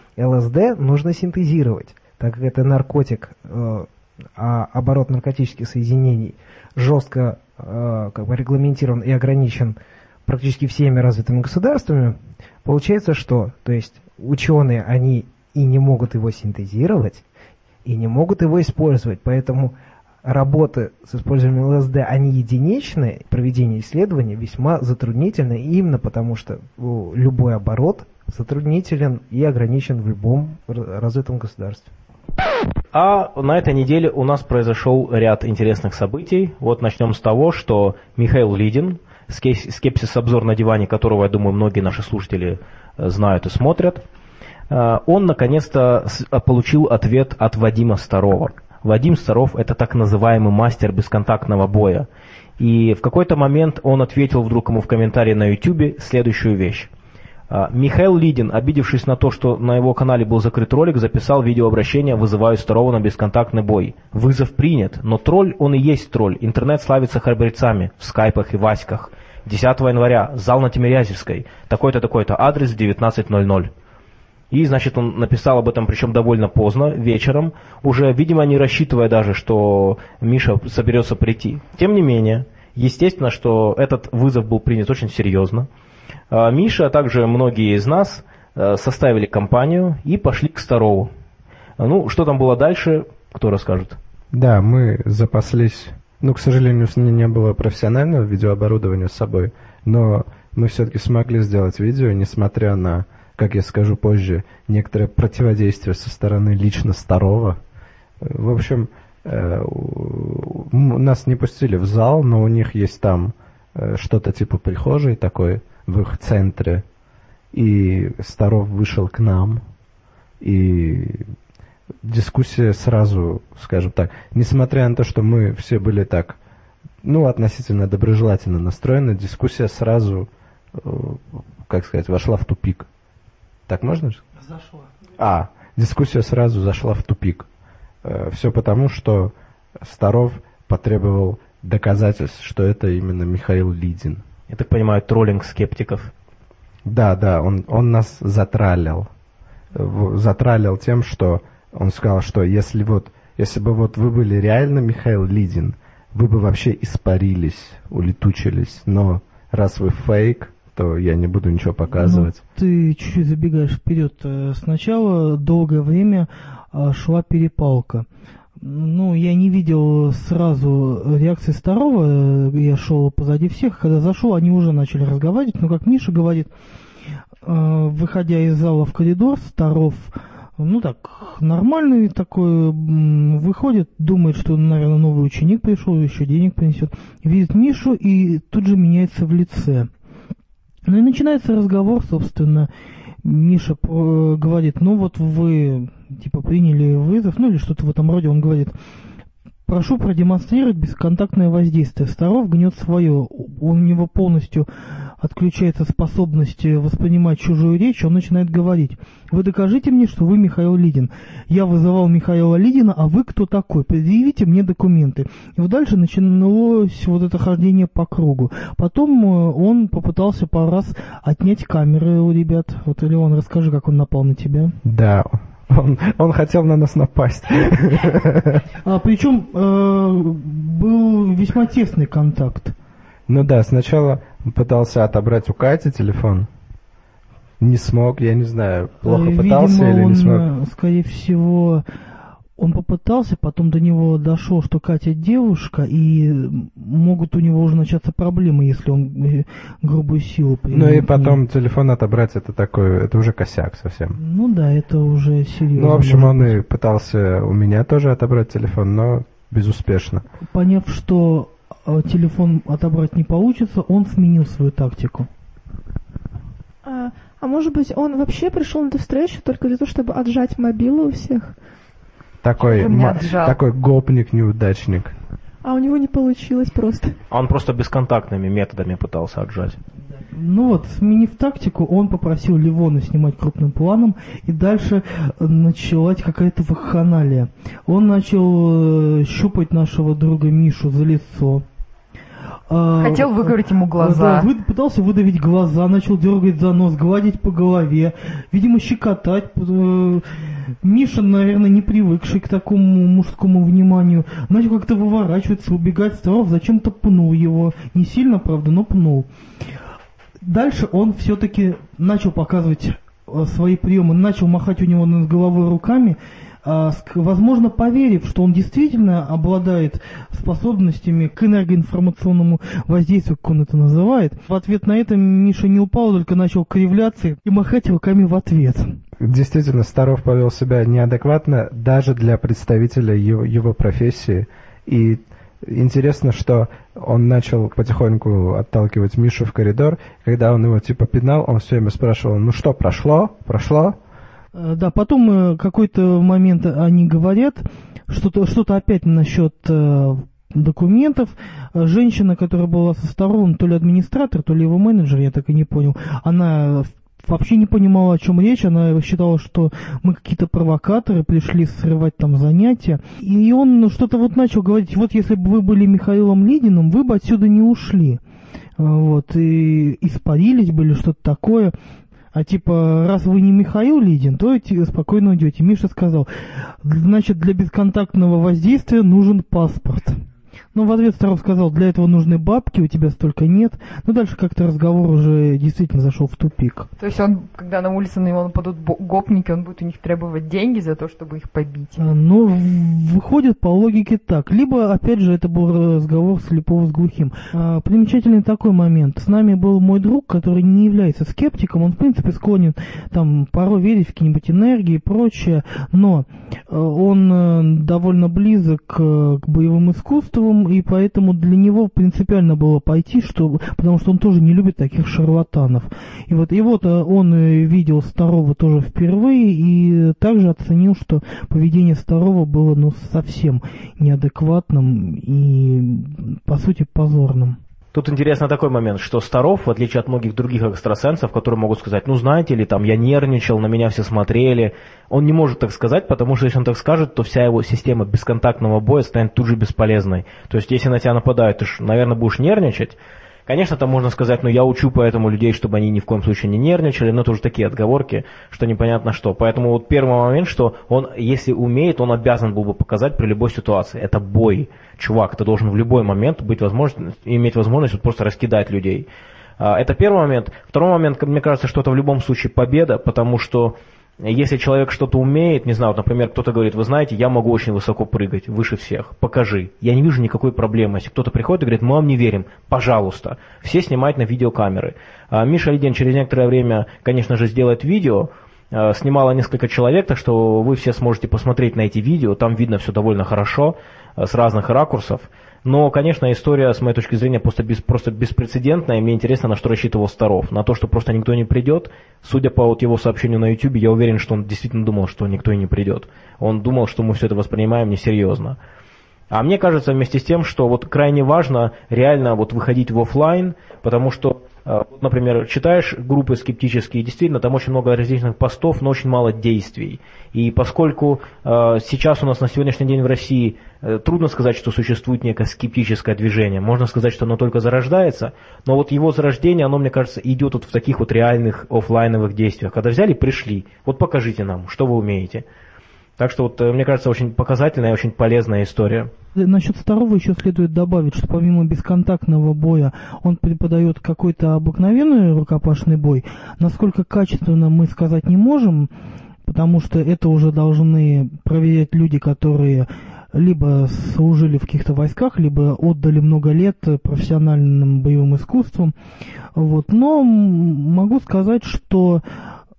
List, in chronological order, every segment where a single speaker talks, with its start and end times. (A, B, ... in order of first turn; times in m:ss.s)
0:00.2-0:17.2 A
0:17.8-0:31.9 A
0:32.9-0:44.0 B
0:44.7-0:52.1 B
0:52.6-0:56.9 B
0:57.5-1:13.7 B
1:14.5-1:25.7 B
1:26.3-1:31.1 B
1:31.8-1:34.0 B
1:34.3-1:47.6 C
1:48.2-1:56.8 C
1:57.5-1:59.6 C
2:00.4-2:01.2 C
2:02.0-2:06.4 C
2:07.0-2:12.9 C
2:13.7-2:14.2 C
2:15.2-2:17.5 C
2:18.0-2:24.2 C
2:24.5-2:26.1 B
2:26.9-2:29.1 C
2:29.7-2:42.4 C
2:42.0-2:48.1 D
2:48.6-2:56.5 D
2:57.4-3:09.9 D
3:10.9-3:12.7 D
3:13.2-3:18.8 D
3:19.7-3:24.7 D
3:25.2-3:44.8 D
3:44.8-3:48.6 C
3:48.8-3:52.8 D
3:53.3-3:56.5 C
3:57.6-4:00.5 C
3:59.0-4:01.8 D
4:02.6-4:11.4 D
4:10.7-4:14.2 C
4:14.2-4:16.6 D
4:15.8-4:20.2 C
4:20.5-4:25.3 D
4:26.8-4:31.6 E
4:32.4-4:35.1 C
4:32.6-4:33.6 F
4:35.6-4:37.2 E
4:37.3-4:39.8 B
4:40.3-4:51.6 D
4:52.7-5:00.3 D
4:53.0-4:54.5 F
5:00.8-5:09.3 D
5:10.4-5:29.0 D
5:29.2-5:44.0 C
5:44.5-6:08.2 D
6:08.8-6:11.7 D
6:12.3-6:20.2 D
6:20.7-6:26.9 D
6:27.0-6:32.0 F
6:32.0-7:07.6 D
7:07.9-7:39.1 B
7:39.6-8:18.6 B
8:19.3-8:45.5 B
8:46.2-8:49.1 B
8:49.4-8:58.9 D
8:59.4-9:08.9 D
9:09.6-9:12.2 D